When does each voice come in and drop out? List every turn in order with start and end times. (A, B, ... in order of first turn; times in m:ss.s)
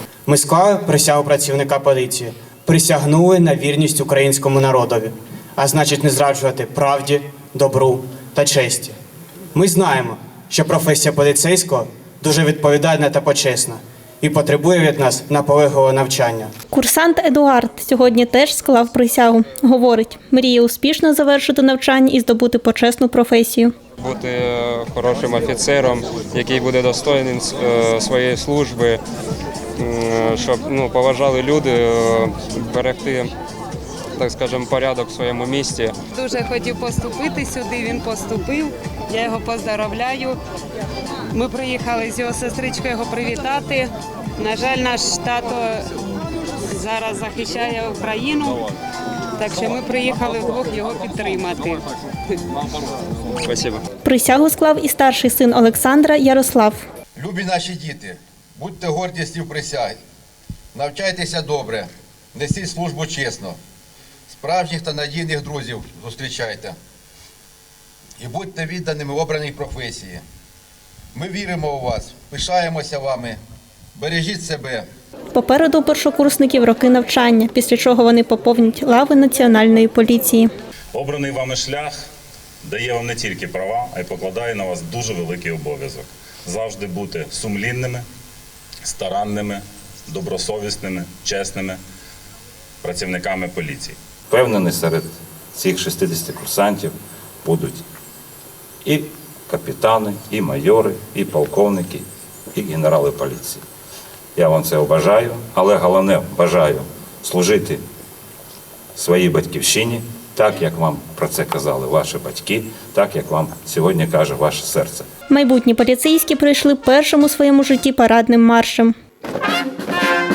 0:00.3-0:09.0 A
0:09.5-0:16.5 A
0:16.7-0:23.7 B
0:24.0-0:29.0 C
0:29.8-0:33.3 C
0:34.2-0:36.0 C
0:36.1-0:40.4 D
0:41.3-0:45.8 D
0:46.7-0:48.6 D
0:49.4-0:51.8 D
0:53.4-0:53.8 C
0:54.0-0:56.8 B
0:57.2-1:00.0 E
1:00.7-1:03.6 E
1:04.3-1:06.8 E
1:08.2-1:10.2 E
1:11.1-1:13.4 E
1:14.0-1:14.9 E
1:15.3-1:20.5 B
1:20.9-1:22.0 F
1:22.6-1:28.1 F
1:28.8-1:31.8 F
1:32.8-1:34.0 F
1:34.3-1:37.8 G
1:38.8-1:43.6 G
1:44.4-1:47.8 G
1:49.0-1:55.1 G
1:55.3-1:58.9 B